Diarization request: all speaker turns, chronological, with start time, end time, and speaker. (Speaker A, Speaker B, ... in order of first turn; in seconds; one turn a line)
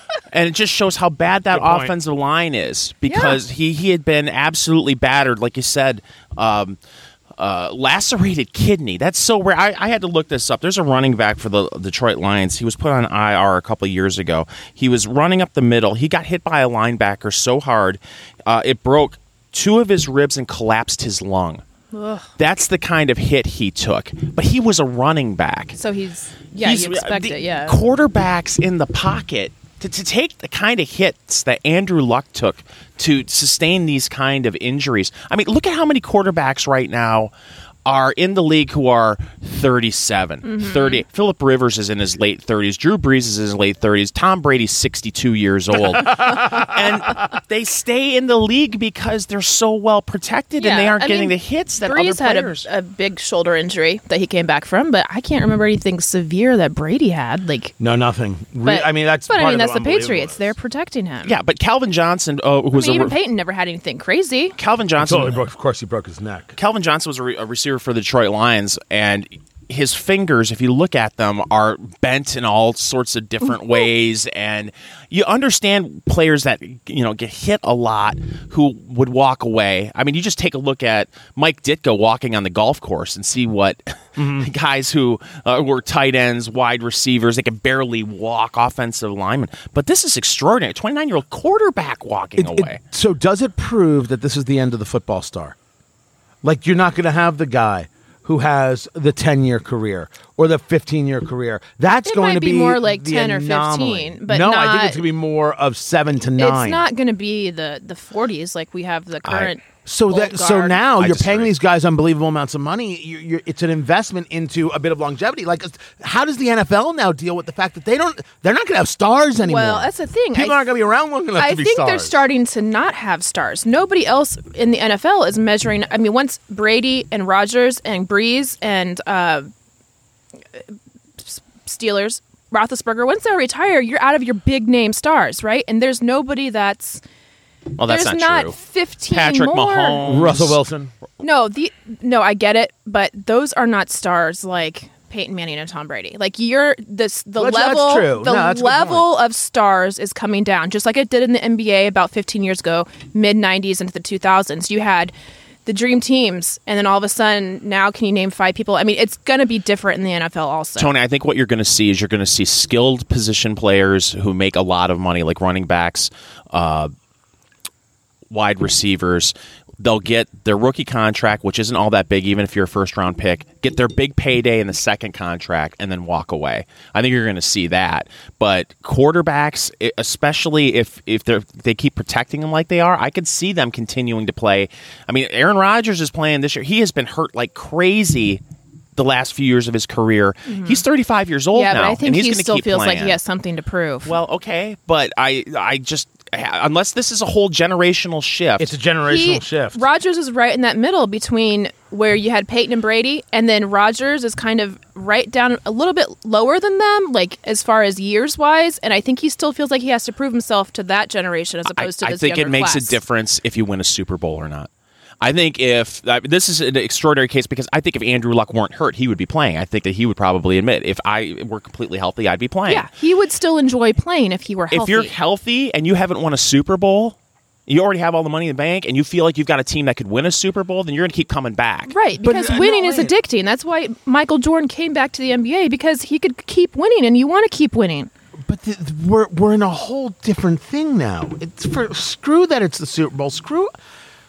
Speaker A: 0.3-6.8
Speaker B: 1.5-1.9
Speaker C: 3.1-3.4
Speaker A: 7.4-21.6
Speaker C: 21.9-22.3
Speaker A: 22.4-25.8
Speaker C: 25.8-27.8
Speaker A: 26.6-37.3
Speaker A: 37.8-52.7
Speaker C: 40.4-41.0
Speaker B: 45.7-47.1
Speaker C: 50.6-57.7
Speaker B: 57.8-60.5
Speaker C: 58.6-61.3
Speaker A: 61.2-63.1
Speaker C: 62.7-64.5
Speaker A: 64.6-65.4
Speaker B: 65.0-66.5
Speaker A: 66.6-92.8
Speaker B: 84.2-84.5
Speaker B: 92.4-95.5
Speaker B: 96.4-106.8
Speaker C: 101.9-105.0
Speaker C: 106.4-110.8
Speaker A: 109.2-109.5
Speaker B: 109.8-122.2
Speaker A: 111.0-111.5
Speaker C: 119.4-120.7
Speaker C: 121.4-129.5
Speaker C: 131.2-137.0
Speaker A: 137.8-138.6
Speaker C: 137.9-140.0
Speaker A: 139.1-140.6
Speaker B: 140.0-140.9
Speaker C: 141.2-155.1
Speaker B: 147.4-149.1
Speaker C: 155.7-160.9
Speaker A: 160.8-166.9
Speaker A: 168.3-188.4
Speaker A: 188.9-193.2
Speaker C: 190.4-190.8
Speaker C: 191.5-194.1
Speaker A: 194.1-198.7
Speaker B: 198.6-199.8
Speaker C: 199.1-213.0
Speaker A: 211.7-214.7
Speaker A: 215.2-222.9
Speaker C: 222.7-225.1
Speaker A: 224.7-227.2
Speaker A: 227.7-231.9
Speaker C: 231.9-238.1
Speaker B: 232.2-233.1
Speaker B: 238.4-243.7